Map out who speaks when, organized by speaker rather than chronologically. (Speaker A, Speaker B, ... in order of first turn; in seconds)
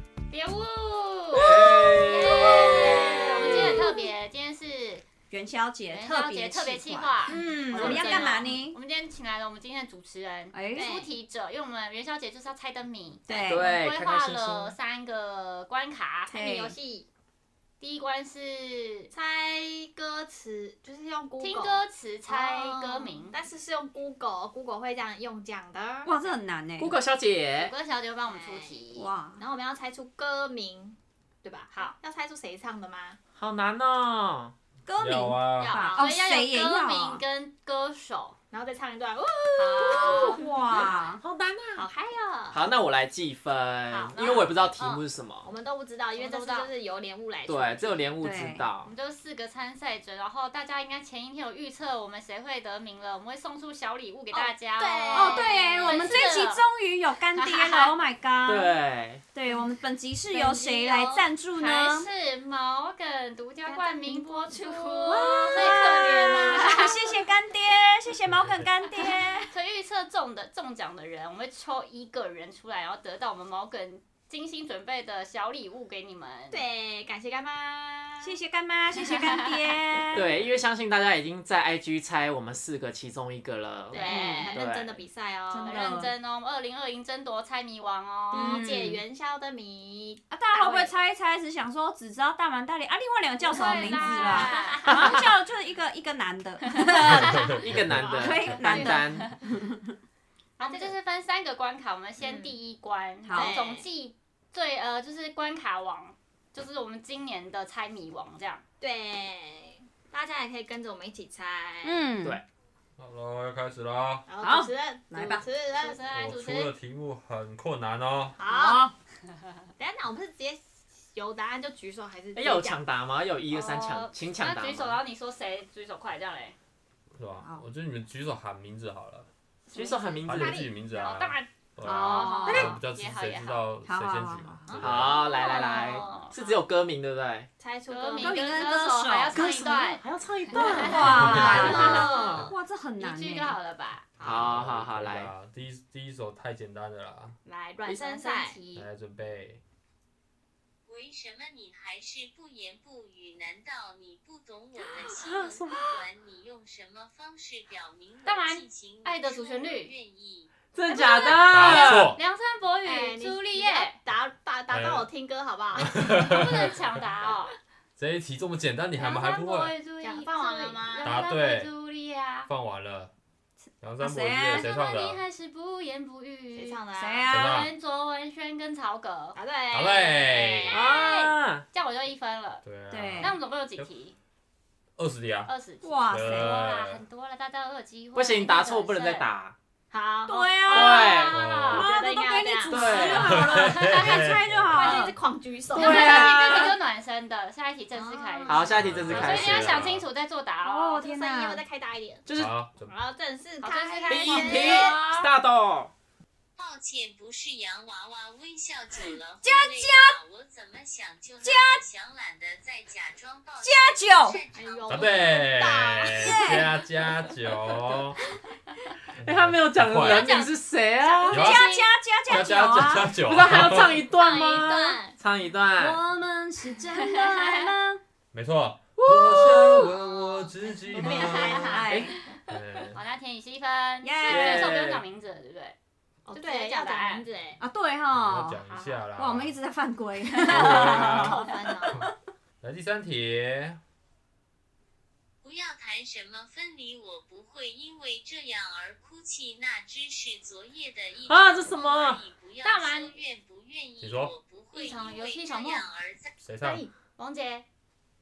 Speaker A: 0.3-5.1, 5.9-16.3, 17.8-19.1, 21.4-23.4, 27.6-29.1, 31.7-32.0, 35.6-38.4, 39.6-40.4, 43.9-44.6, 46.1-46.7, 48.8-56.6, 57.3-58.0, 61.5-67.0, 69.5-76.6, 79.0-79.5, 83.9-84.5, 85.6-88.7, 93.5-95.2, 96.8-97.6, 98.5-99.3, 100.6-108.6, 115.8-116.7, 123.5-126.6, 130.9-133.7, 135.1-136.6, 137.9-144.1, 158.2-159.9, 160.9-164.0, 165.9-167.6, 169.0-172.5, 174.5-179.4, 180.3-184.2, 185.5-189.3, 190.7-191.9, 192.9-194.2, 195.7-201.0, 203.6-205.3, 220.0-222.6, 227.0-227.7, 232.9-235.8, 236.3-237.3, 238.7-239.0, 240.4-241.2, 252.6-253.2, 254.7-255.9, 257.2-257.7
Speaker B: 1.4-2.8, 3.5-3.8, 13.5-14.8, 26.8-27.7, 33.4-34.5, 39.9-41.9, 42.5-45.5, 47.5-48.9, 58.4-59.2, 80.1-85.0, 97.0-99.3, 114.4-114.7, 122.4-125.0, 129.7-130.7, 134.8-137.5, 140.0-142.4, 144.2-145.3, 147.9-148.6, 155.1-155.9, 160.7-162.2, 180.7-181.7, 188.2-189.6, 190.7-191.4, 192.7-193.5, 195.7-196.8, 198.5-199.8, 202.3-202.6, 204.1-205.9, 219.2-221.4, 223.2-226.0, 229.0-229.9, 234.3-235.0, 251.3-252.2
Speaker C: 1.5-2.4, 35.0-35.8, 68.4-68.7, 97.3-98.0, 113.0-114.3, 116.1-118.4, 127.1-129.3, 130.2-135.2, 144.2-147.4, 148.7-149.6, 161.5-162.2, 164.7-165.1, 165.7-166.8, 168.0-169.8, 171.0-171.7, 172.5-173.1, 173.8-175.2, 177.3-177.7, 179.7-180.8, 182.6-183.9, 185.0-185.5, 186.1-187.0, 191.3-191.9, 193.3-195.0, 198.8-200.1, 202.4-202.9, 214.9-218.2, 219.2-220.4, 221.3-221.7, 222.3-224.0, 228.3-231.8, 232.5-233.0, 238.1-239.6, 240.5-241.4, 242.6-243.8, 254.0-254.3, 256.4-256.9
Speaker D: 2.4-3.9, 7.3-8.4, 10.8-11.1, 13.3-13.6, 16.3-17.1, 19.1-26.1, 28.3-33.2, 35.8-36.2, 38.5-40.9, 41.8-42.6, 44.8-48.1, 54.3-56.6, 60.3-61.3, 63.7-67.1, 76.5-78.4, 83.9-86.0, 88.3-90.9, 93.4-95.2, 98.0-99.0, 100.6-101.0, 103.3-103.9, 108.8-112.1, 114.3-116.0, 118.4-118.8, 119.8-122.8, 129.7-131.2, 131.9-132.6, 134.7-135.3, 137.6-138.8, 141.0-142.6, 147.4-148.9, 162.8-166.2, 170.0-171.1, 176.5-177.5, 179.3-180.3, 189.9-191.0, 191.7-193.3, 194.7-196.7, 197.9-199.5, 201.0-202.3, 202.8-205.0, 214.5-216.6, 223.6-225.2, 230.1-231.9, 236.3-237.6, 240.5-242.1, 256.6-256.9
Speaker E: 5.3-8.8, 10.5-11.0, 13.3-13.7, 16.3-16.8, 26.1-27.0, 28.9-29.4, 34.9-37.2, 40.3-41.2, 48.2-48.7, 55.1-58.7, 59.3-62.1, 65.0-69.5, 78.2-80.3, 84.1-84.5, 85.5-86.1, 88.3-89.0, 90.3-97.6, 98.1-99.9, 103.2-103.6, 111.8-112.4, 114.5-115.4, 118.5-118.9, 132.1-132.8, 133.8-134.7, 138.2-140.0, 140.5-143.6, 174.0-174.7, 176.9-177.7, 182.9-183.4, 185.8-186.6, 190.3-195.2, 200.6-201.6, 209.4-210.2, 211.4-211.8, 213.6-214.4, 216.0-216.7, 221.2-223.3, 225.8-228.0, 231.1-232.2, 234.0-234.8, 237.6-238.6, 239.2-242.1
Speaker F: 150.9-160.5, 206.6-215.2, 245.4-256.3